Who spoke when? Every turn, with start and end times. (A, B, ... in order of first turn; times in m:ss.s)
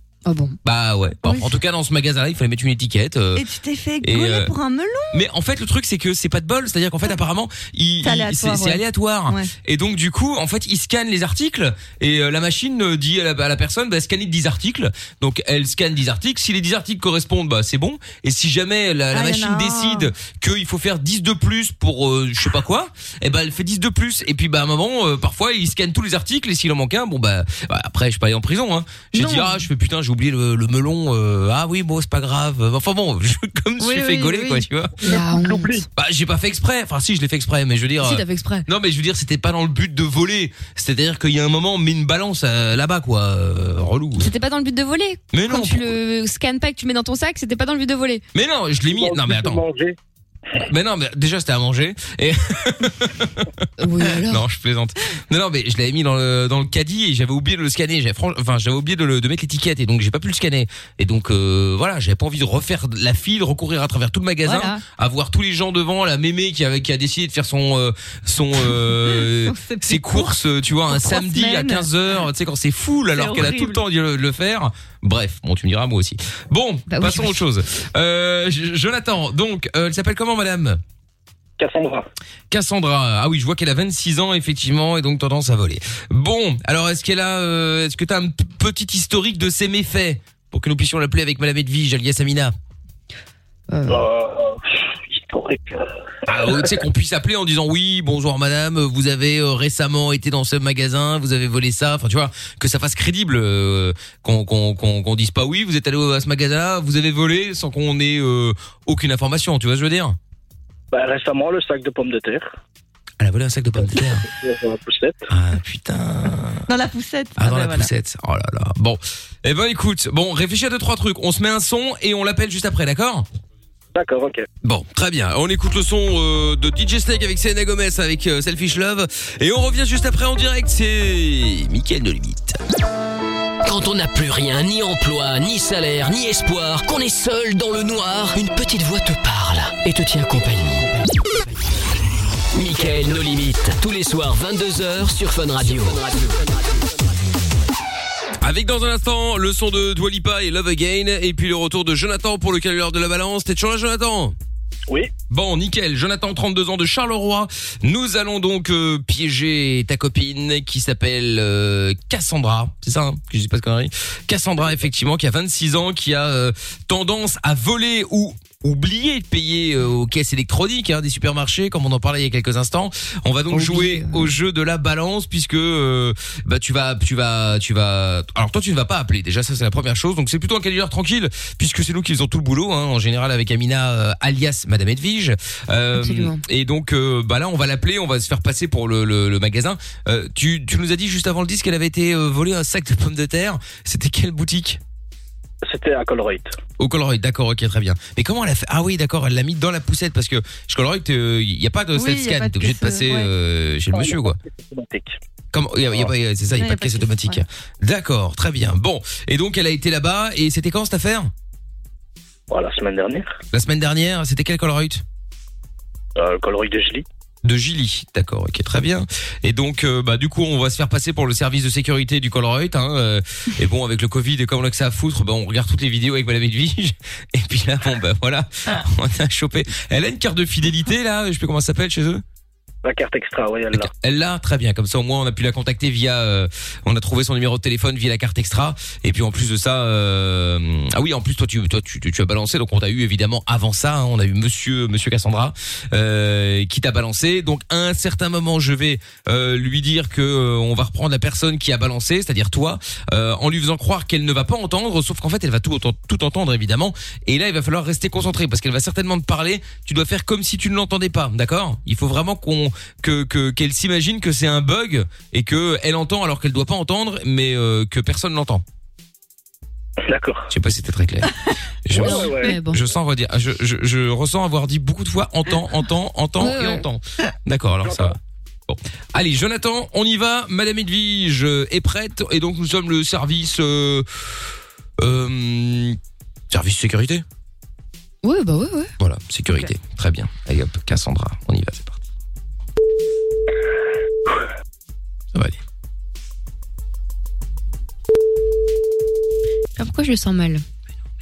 0:00.2-0:00.6 A
0:00.6-0:03.4 B
0:01.2-0:01.5 C
0:03.4-0:05.2 C
0:04.0-0:04.5 B
0:05.1-0:34.9 B
0:08.0-0:09.5 C
0:19.1-0:20.1 C
0:29.1-0:29.6 A
0:33.8-0:34.6 C
0:35.0-0:35.9 D
0:35.0-0:35.8 A
0:36.0-0:44.3 B
0:38.0-0:38.6 A
0:44.2-0:48.2 A
0:45.3-0:45.9 B
0:48.3-0:49.6 B
0:48.9-0:50.0 D
0:50.6-0:53.5 B
0:53.8-0:54.4 A
0:54.0-1:20.8 B
1:04.4-1:04.8 C
1:09.1-1:10.3 C
1:10.9-1:11.8 C
1:13.1-1:13.8 C
1:16.9-1:17.4 A
1:21.6-1:22.0 D
1:22.5-1:32.5 B
1:33.7-1:34.0 A
1:33.9-1:36.8 D
1:36.3-1:50.2 B
1:50.9-1:52.6 D
1:53.2-1:54.2 B
1:53.9-1:55.3 D
1:55.3-1:56.6 B
1:56.7-1:57.9 C
1:57.4-2:03.2 B
2:03.9-2:04.5 D
2:04.6-2:12.6 B
2:13.6-2:21.0 E
2:22.5-2:26.5 E
2:28.4-2:34.3 B
2:35.3-3:14.8 B
2:53.5-2:54.3 A
3:05.9-3:06.4 A
3:15.6-3:16.6 D
3:16.8-3:24.4 B
3:21.9-3:23.3 C
3:23.9-3:25.2 D
3:25.5-3:31.3 B
3:26.6-3:27.4 C
3:32.5-3:33.4 D
3:33.5-3:35.0 B
3:36.2-3:37.0 D
3:37.4-3:52.2 B
3:52.8-3:53.9 D
3:53.7-4:28.6 B
4:30.0-4:30.5 D
4:30.5-4:31.3 B
4:31.8-4:38.2 B
4:31.9-4:32.5 D
4:31.9-4:32.8 A
4:36.4-4:36.8 A
4:37.8-4:38.1 D
4:38.7-4:44.0 B
4:45.0-4:46.0 B
4:46.5-4:47.2 B
4:48.2-4:48.9 A
4:49.0-4:52.0 B
4:59.8-5:00.6 A